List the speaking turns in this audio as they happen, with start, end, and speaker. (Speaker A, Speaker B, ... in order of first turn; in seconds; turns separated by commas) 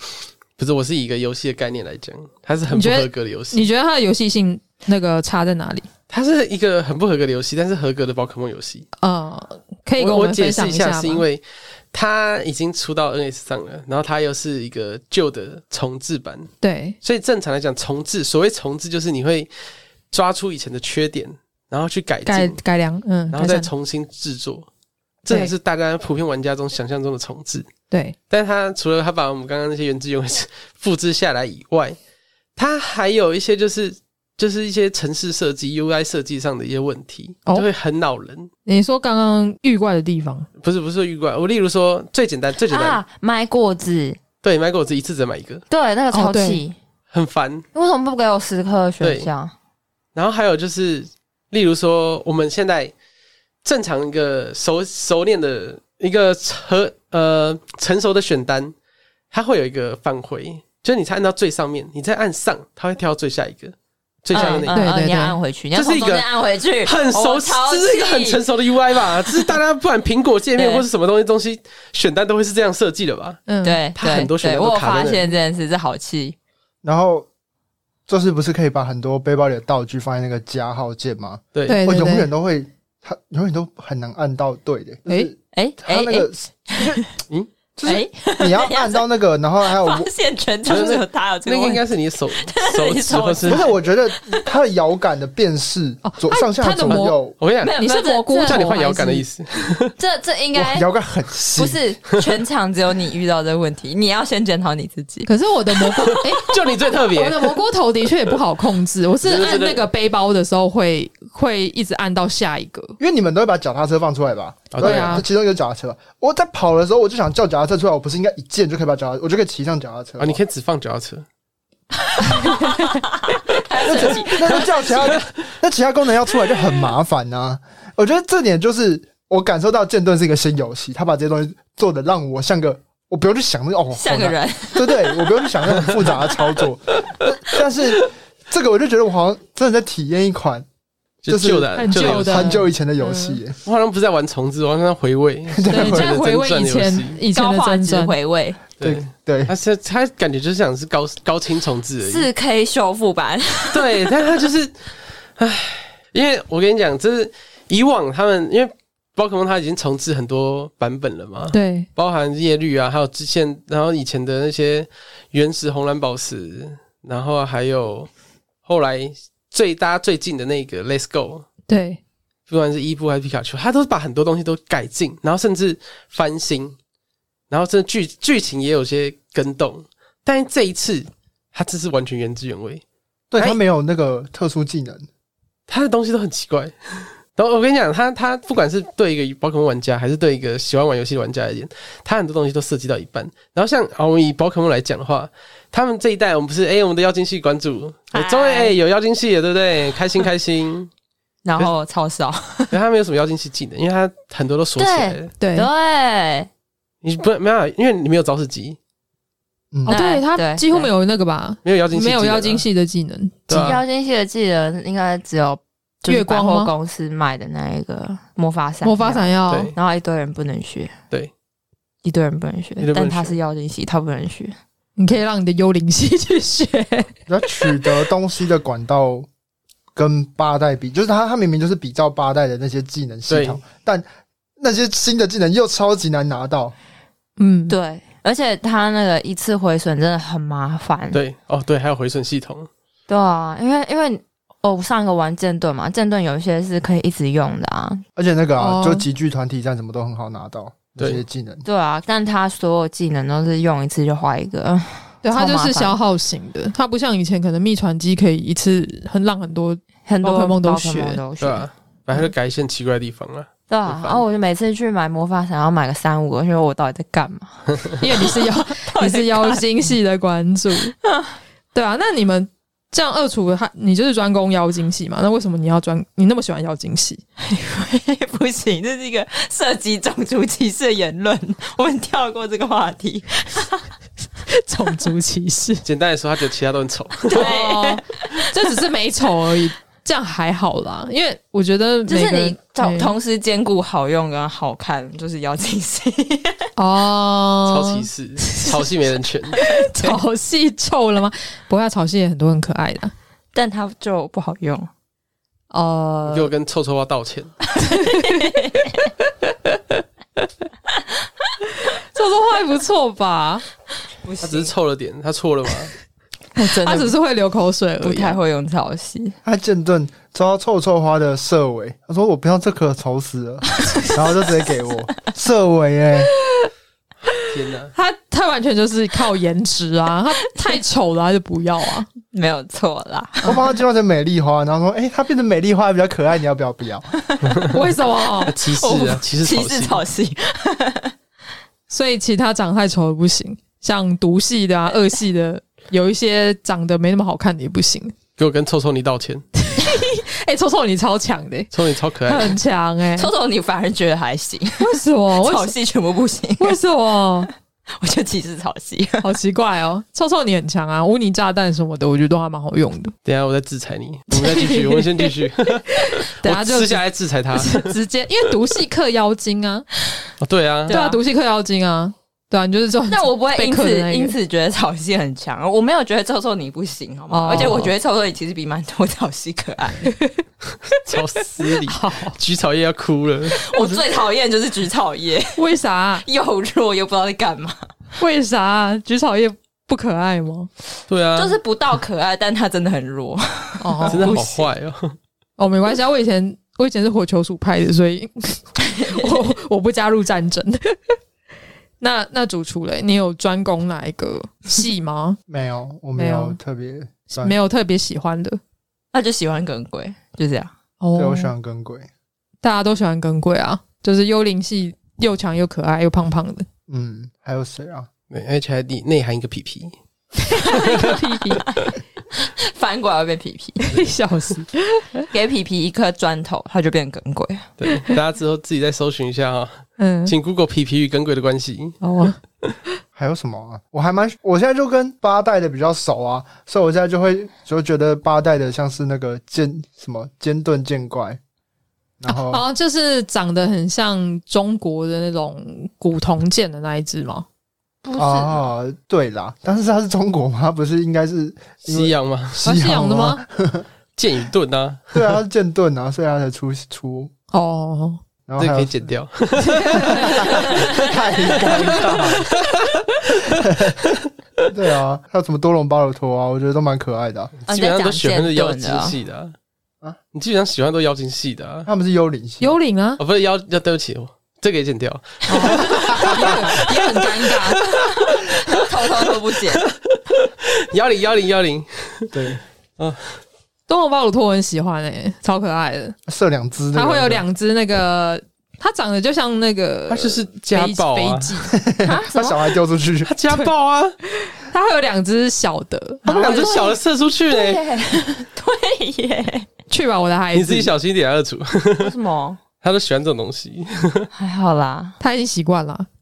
Speaker A: 0.6-3.7, Speaker B: 2.7-5.9, Speaker A: 6.1-8.9, Speaker B: 9.0-11.2, Speaker A: 10.0-16.5, Speaker B: 16.6-17.0, Speaker A: 17.0-19.5, Speaker A: 20.1-22.6, Speaker B: 22.3-23.7, Speaker A: 23.3-24.7, Speaker A: 25.2-27.7, Speaker B: 27.9-28.2, Speaker A: 28.3-32.0, Speaker A: 32.6-38.5, Speaker B: 38.6-40.5, Speaker A: 40.6-43.0, Speaker C: 42.7-44.2, Speaker A: 44.4-45.6, Speaker C: 45.7-46.8, Speaker B: 46.1-46.6, Speaker A: 47.1-47.7, Speaker C: 47.7-49.5, Speaker A: 49.0-49.3, Speaker A: 50.1-52.9, Speaker A: 53.6-58.7, Speaker A: 59.3-64.8, Speaker B: 64.3-65.4, Speaker C: 64.3-68.4, Speaker A: 65.7-73.4, Speaker C: 70.6-70.8, Speaker B: 73.5-73.8, Speaker C: 73.6-76.4, Speaker A: 74.0-75.3, Speaker D: 76.8-77.3, Speaker D: 78.1-87.1, Speaker A: 81.5-81.8, Speaker B: 81.7-82.3, Speaker C: 85.5-87.0, Speaker D: 87.8-90.1, Speaker C: 87.8-89.0, Speaker C: 89.7-91.8, Speaker A: 90.7-93.7, Speaker C: 92.4-94.5, Speaker D: 93.5-97.4, Speaker B: 96.0-97.2, Speaker A: 96.9-97.8, Speaker C: 97.6-98.7, Speaker B: 97.7-99.2, Speaker A: 98.4-99.9, Speaker C: 100.0-100.9, Speaker D: 100.5-101.8, Speaker C: 101.5-105.3, Speaker B: 105.3-106.6, Speaker A: 106.0-107.6, Speaker B: 107.1-113.0, Speaker A: 109.2-109.9, Speaker D: 113.0-120.4, Speaker A: 114.7-115.2, Speaker B: 114.8-115.2, Speaker A: 120.2-121.3, Speaker C: 122.0-125.2, Speaker B: 122.3-123.0, Speaker D: 123.8-140.7, Speaker C: 133.9-135.5, Speaker A: 141.2-142.7, Speaker D: 141.3-143.6, Speaker B: 141.8-142.7, Speaker A: 143.6-147.2, Speaker D: 145.5-146.2, Speaker B: 145.7-148.1, Speaker C: 147.3-148.6, Speaker A: 148.8-152.3, Speaker D: 148.8-149.5, Speaker C: 152.1-153.9, Speaker A: 153.7-154.8, Speaker A: 155.4-168.1, Speaker B: 161.5-161.9, Speaker A: 168.7-171.5, Speaker B: 171.7-172.0, Speaker A: 172.5-176.8, Speaker A: 177.5-182.8, Speaker D: 183.3-185.1, Speaker A: 185.7-200.9, Speaker C: 198.1-198.7, Speaker C: 201.4-202.7, Speaker A: 202.7-205.3, Speaker C: 204.8-206.5, Speaker B: 205.4-205.7, Speaker A: 207.0-208.8, Speaker B: 209.9-213.7, Speaker C: 209.9-210.9, Speaker A: 211.6-212.7, Speaker A: 213.5-213.8, Speaker C: 213.5-220.9, Speaker B: 216.1-216.7, Speaker B: 218.8-219.7, Speaker A: 219.5-219.8, Speaker C: 222.0-224.6, Speaker A: 222.8-223.4, Speaker B: 225.0-227.1, Speaker D: 227.3-229.3, Speaker B: 227.6-228.1, Speaker D: 229.9-234.1, Speaker A: 233.3-233.6, Speaker D: 234.6-236.7, Speaker B: 237.4-237.8, Speaker C: 237.7-241.2, Speaker A: 241.1-242.7, Speaker C: 243.1-248.0, Speaker D: 248.2-251.6, Speaker B: 248.6-249.1, Speaker C: 251.7-256.0, Speaker B: 255.2-261.2, Speaker C: 260.1-261.7, Speaker A: 261.4-264.2, Speaker C: 263.7-269.9, Speaker B: 268.0-270.9, Speaker C: 271.0-271.4, Speaker B: 271.7-277.2, Speaker C: 277.4-283.9, Speaker B: 284.5-285.8, Speaker A: 285.9-287.5, Speaker C: 287.3-288.5, Speaker B: 287.3-293.1, Speaker C: 292.1-296.7, Speaker B: 296.8-298.9, Speaker A: 297.7-299.6, Speaker B: 299.6-303.1, Speaker C: 299.6-300.2, Speaker C: 303.5-304.9, Speaker B: 305.7-306.5, Speaker A: 306.3-307.6, Speaker B: 307.8-308.6, Speaker C: 307.8-309.1, Speaker B: 309.4-310.4, Speaker B: 312.0-313.6, Speaker C: 314.2-314.7, Speaker A: 314.4-315.9, Speaker C: 316.6-317.1, Speaker B: 316.6-318.4, Speaker C: 318.0-319.4, Speaker D: 319.4-326.3, Speaker A: 327.3-327.9, Speaker B: 327.9-332.1, Speaker C: 332.2-333.6, Speaker D: 333.4-337.1, Speaker C: 337.2-337.6, Speaker B: 337.7-338.6, Speaker C: 338.2-341.1, Speaker A: 338.4-340.0, Speaker B: 341.9-348.1, Speaker A: 348.4-349.4, Speaker B: 349.6-351.7, Speaker A: 351.7-352.6, Speaker B: 352.3-353.3, Speaker C: 353.1-356.8, Speaker B: 354.8-355.7, Speaker B: 356.6-357.5, Speaker C: 358.0-359.4, Speaker B: 359.2-363.1, Speaker A: 363.2-367.9, Speaker B: 364.3-365.0, Speaker B: 365.9-369.9, Speaker A: 370.4-371.0, Speaker C: 370.9-371.2, Speaker B: 370.9-374.3, Speaker C: 373.1-380.1, Speaker B: 377.3-377.9, Speaker B: 380.1-380.4, Speaker A: 381.0-383.6, Speaker B: 381.6-382.4, Speaker C: 383.5-385.7, Speaker B: 385.6-386.2, Speaker C: 386.2-387.9, Speaker B: 388.2-390.7, Speaker A: 391.1-391.6, Speaker C: 391.4-394.7, Speaker B: 393.8-394.3, Speaker A: 394.1-395.2, Speaker B: 395.6-401.2, Speaker C: 398.9-399.4, Speaker B: 402.0-405.4, Speaker D: 405.5-407.6, Speaker B: 406.2-406.6, Speaker B: 407.3-408.6, Speaker C: 409.1-410.7, Speaker B: 411.0-411.5, Speaker D: 411.2-412.1, Speaker B: 412.6-416.7, Speaker D: 416.9-418.1, Speaker A: 418.3-419.9, Speaker B: 420.5-421.8, Speaker A: 420.7-421.1, Speaker C: 420.7-424.1, Speaker B: 423.9-425.2, Speaker C: 425.3-427.7, Speaker A: 427.8-432.0, Speaker B: 430.0-430.4, Speaker B: 432.0-432.4, Speaker D: 433.1-441.4, Speaker D: 442.2-442.6, Speaker B: 442.3-447.5, Speaker C: 448.0-448.6, Speaker D: 448.2-453.9, Speaker A: 451.8-452.7, Speaker B: 452.6-453.4, Speaker A: 454.2-455.3, Speaker D: 455.1-457.3, Speaker B: 457.5-458.2, Speaker D: 458.5-459.1, Speaker A: 458.6-460.8, Speaker B: 459.9-460.5, Speaker D: 459.9-462.5, Speaker A: 461.7-463.6, Speaker D: 463.6-464.0, Speaker D: 464.7-467.5, Speaker C: 467.7-469.1, Speaker A: 467.7-469.6, Speaker A: 470.3-471.9, Speaker D: 471.9-472.8, Speaker B: 472.6-473.2, Speaker A: 473.2-476.8, Speaker B: 475.5-477.8, Speaker D: 476.1-476.6, Speaker C: 476.2-479.8, Speaker A: 480.1-482.3, Speaker D: 482.3-482.6, Speaker A: 483.0-483.4, Speaker B: 483.9-486.2, Speaker D: 486.3-487.4, Speaker B: 486.9-491.8, Speaker A: 490.1-491.6, Speaker D: 491.7-493.3, Speaker C: 492.0-492.7, Speaker A: 493.2-494.2, Speaker B: 494.3-496.5, Speaker C: 496.2-499.7, Speaker A: 496.3-497.9, Speaker B: 499.9-500.9, Speaker A: 500.5-502.1, Speaker C: 502.0-502.6, Speaker A: 502.8-504.3, Speaker C: 504.3-505.2, Speaker B: 505.2-506.1